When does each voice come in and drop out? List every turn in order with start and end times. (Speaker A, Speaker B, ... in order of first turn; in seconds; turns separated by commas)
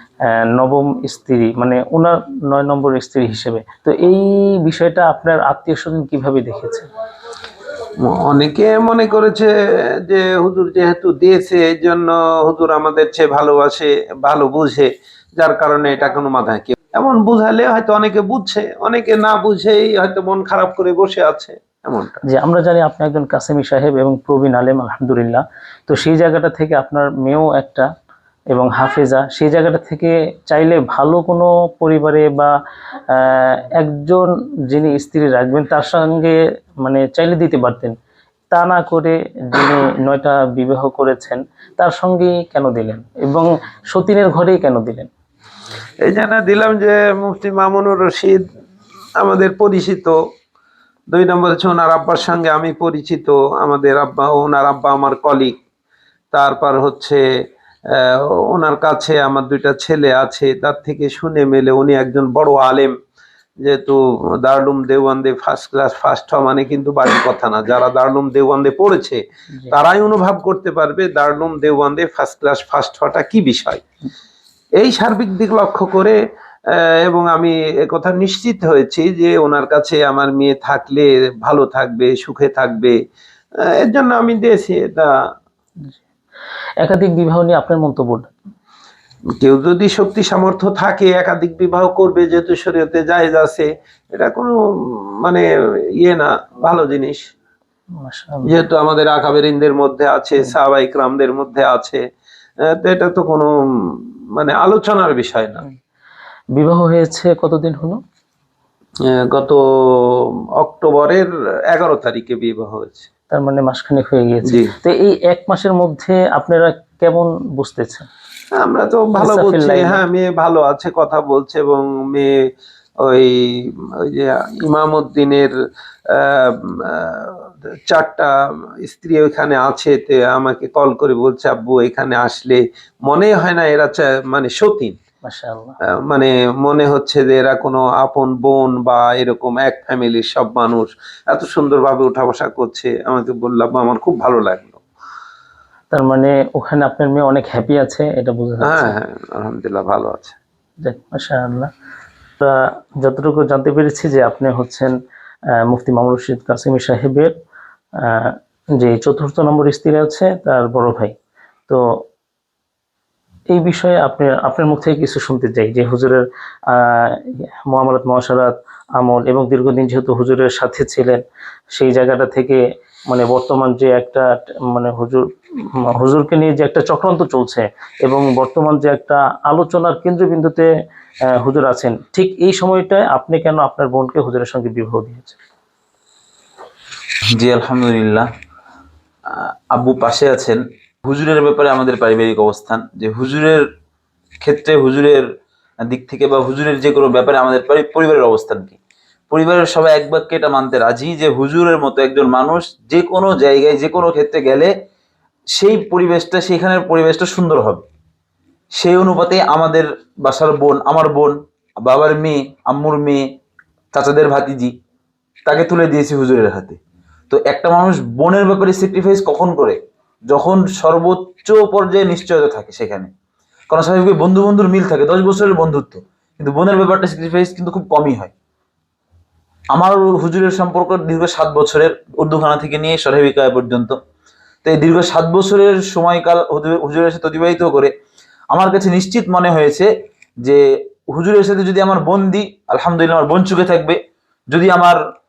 Speaker A: 0.2-6.9, Speaker B: 8.0-22.2, Speaker A: 22.3-27.9, Speaker A: 28.5-32.5, Speaker A: 33.1-37.9, Speaker A: 38.5-45.1, Speaker B: 46.0-48.4, Speaker B: 49.2-50.2, Speaker B: 51.1-55.6, Speaker B: 56.3-57.2, Speaker B: 57.9-62.9, Speaker B: 63.6-73.8, Speaker B: 74.8-76.2, Speaker B: 76.7-83.0, Speaker B: 83.6-85.1, Speaker A: 86.8-88.3, Speaker B: 89.4-94.5, Speaker B: 95.2-95.5, Speaker B: 96.0-97.3, Speaker A: 98.0-98.6, Speaker B: 98.5-102.0, Speaker B: 102.7-103.5, Speaker B: 104.4-105.6, Speaker A: 106.5-108.0, Speaker B: 109.0-113.1, Speaker A: 113.3-118.1, Speaker B: 114.5-114.7, Speaker B: 118.6-122.3, Speaker A: 119.2-120.0, Speaker B: 123.0-123.4, Speaker B: 124.0-125.5, Speaker B: 126.1-135.0, Speaker A: 135.2-135.7, Speaker B: 136.1-144.8, Speaker A: 145.9-148.9, Speaker B: 148.6-150.4, Speaker A: 150.8-151.7, Speaker A: 152.4-154.9, Speaker A: 155.7-157.3, Speaker A: 158.0-161.1, Speaker A: 161.7-162.0, Speaker A: 163.5-171.2, Speaker A: 171.7-175.2, Speaker A: 176.0-180.7, Speaker A: 181.4-185.4, Speaker C: 187.3-188.3, Speaker C: 189.3-193.6, Speaker C: 194.4-195.2, Speaker C: 195.8-198.8, Speaker C: 199.3-204.7, Speaker C: 205.6-207.8, Speaker C: 208.8-213.2, Speaker C: 213.9-214.7, Speaker C: 215.4-216.8, Speaker C: 217.3-219.8, Speaker C: 220.3-223.1, Speaker C: 223.7-228.3, Speaker C: 229.7-234.0, Speaker C: 234.6-237.9, Speaker C: 238.5-239.9, Speaker C: 240.4-244.0, Speaker C: 244.5-245.0